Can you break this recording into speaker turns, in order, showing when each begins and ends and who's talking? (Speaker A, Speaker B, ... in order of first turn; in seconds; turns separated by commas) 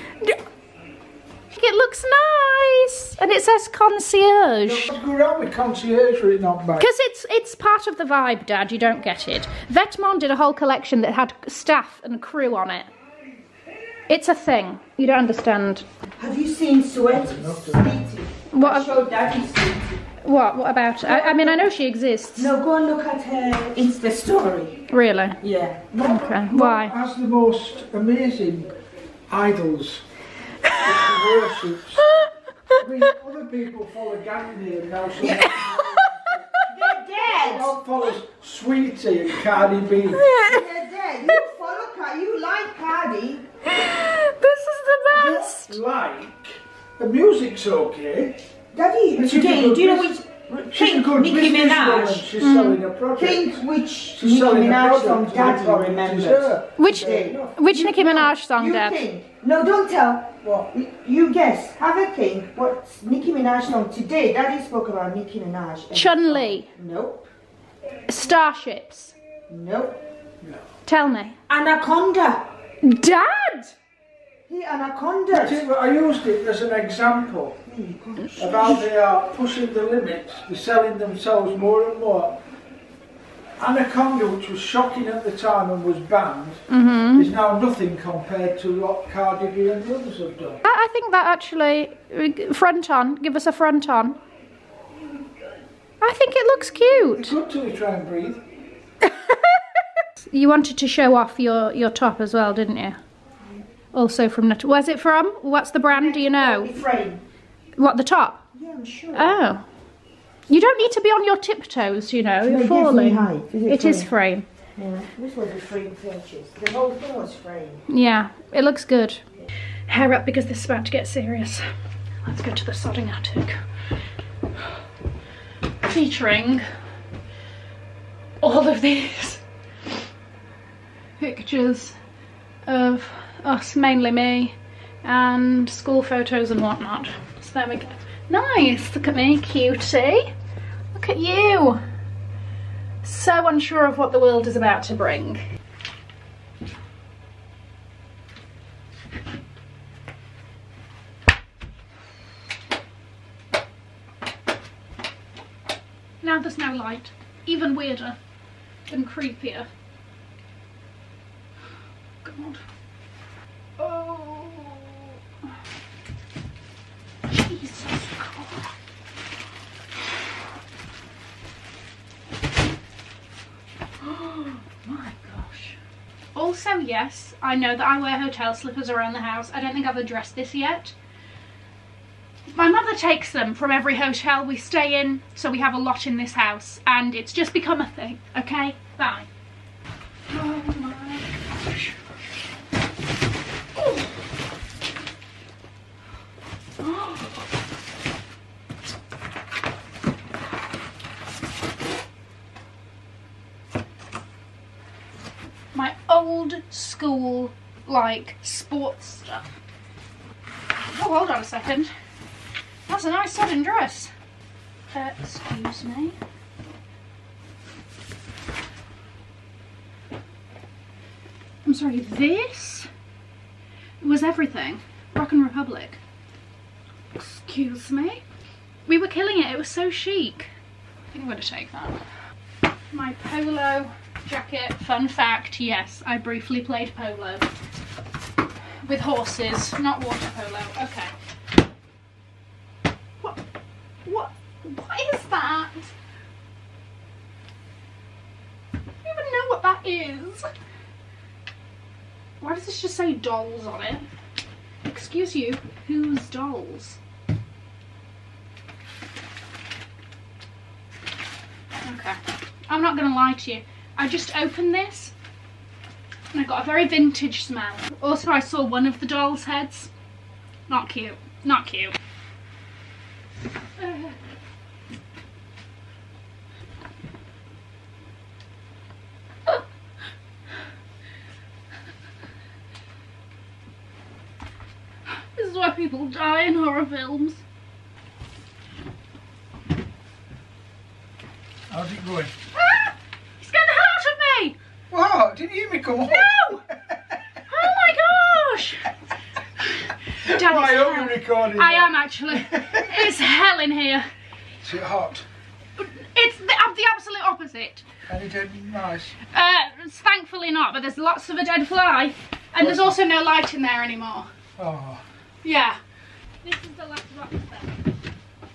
Speaker A: 1.5-4.9, Speaker B: 4.6-6.8, Speaker A: 6.8-12.9, Speaker A: 14.1-15.8, Speaker C: 16.2-20.0, Speaker B: 17.1-17.9, Speaker A: 18.5-19.0, Speaker A: 20.2-22.5, Speaker C: 21.0-21.6, Speaker C: 22.4-24.8, Speaker A: 24.9-25.4, Speaker C: 25.4-25.9, Speaker B: 25.9-28.7, Speaker A: 25.9-26.9, Speaker B: 29.3-30.0, Speaker A: 30.7-31.2, Speaker B: 30.8-32.1, Speaker B: 32.8-36.1, Speaker C: 35.2-36.1, Speaker A: 35.4-36.3, Speaker C: 36.7-37.8, Speaker B: 37.2-40.3, Speaker A: 40.1-40.7, Speaker C: 40.4-43.4, Speaker A: 43.7-45.8, Speaker B: 45.1-48.4, Speaker C: 48.7-52.3, Speaker B: 49.2-50.2, Speaker B: 50.7-57.6, Speaker A: 52.4-52.8, Speaker C: 53.1-67.3, Speaker A: 56.8-59.0, Speaker B: 60.4-60.7, Speaker A: 65.9-66.7, Speaker A: 68.1-69.2, Speaker C: 69.5-70.0, Speaker A: 70.8-71.3, Speaker C: 71.5-72.5, Speaker A: 72.8-73.8, Speaker C: 74.5-75.7, Speaker B: 75.3-77.6, Speaker C: 77.6-78.8, Speaker B: 78.4-82.4, Speaker B: 83.6-90.6, Speaker A: 86.7-87.3, Speaker A: 90.6-94.2, Speaker A: 96.0-97.4, Speaker B: 97.1-98.4, Speaker A: 99.0-99.6, Speaker A: 100.3-103.0, Speaker A: 103.9-106.8, Speaker C: 105.9-107.2, Speaker A: 107.8-108.4, Speaker C: 108.5-109.4, Speaker A: 109.1-109.7, Speaker A: 110.5-114.5, Speaker C: 112.4-114.1, Speaker C: 114.8-117.8, Speaker A: 117.9-119.2, Speaker A: 119.9-123.6, Speaker A: 125.8-126.7, Speaker A: 128.4-129.4, Speaker A: 131.2-131.9, Speaker A: 132.7-140.3, Speaker A: 140.9-141.8, Speaker A: 143.0-145.4, Speaker A: 156.2-158.2, Speaker A: 158.9-159.7, Speaker A: 162.2-162.6, Speaker A: 163.8-165.2, Speaker A: 167.3-168.7, Speaker A: 174.0-175.8, Speaker A: 176.3-180.9, Speaker A: 182.5-189.3, Speaker A: 190.3-191.9, Speaker A: 196.8-197.2, Speaker A: 205.7-209.5, Speaker A: 210.8-211.9, Speaker A: 212.9-214.1, Speaker A: 214.9-216.2, Speaker A: 221.6-222.9, Speaker A: 224.0-226.0, Speaker A: 227.1-228.2, Speaker A: 228.8-230.5, Speaker A: 231.1-232.0, Speaker A: 232.9-237.5, Speaker A: 238.8-241.1, Speaker A: 244.1-245.9, Speaker A: 249.0-250.5, Speaker A: 252.4-254.1, Speaker A: 254.8-257.0, Speaker A: 261.8-265.1, Speaker A: 266.3-269.9, Speaker A: 270.7-272.0, Speaker A: 273.8-274.1, Speaker A: 285.1-287.4, Speaker B: 291.7-292.3, Speaker A: 292.6-294.6, Speaker B: 294.9-297.7, Speaker A: 296.1-296.6, Speaker A: 297.4-298.9, Speaker A: 299.6-304.1, Speaker B: 300.2-303.1, Speaker B: 304.6-305.3, Speaker A: 305.8-307.8, Speaker B: 308.1-309.2, Speaker A: 309.3-314.3, Speaker B: 312.6-312.9, Speaker B: 314.6-315.1, Speaker A: 315.4-315.8, Speaker A: 316.4-317.8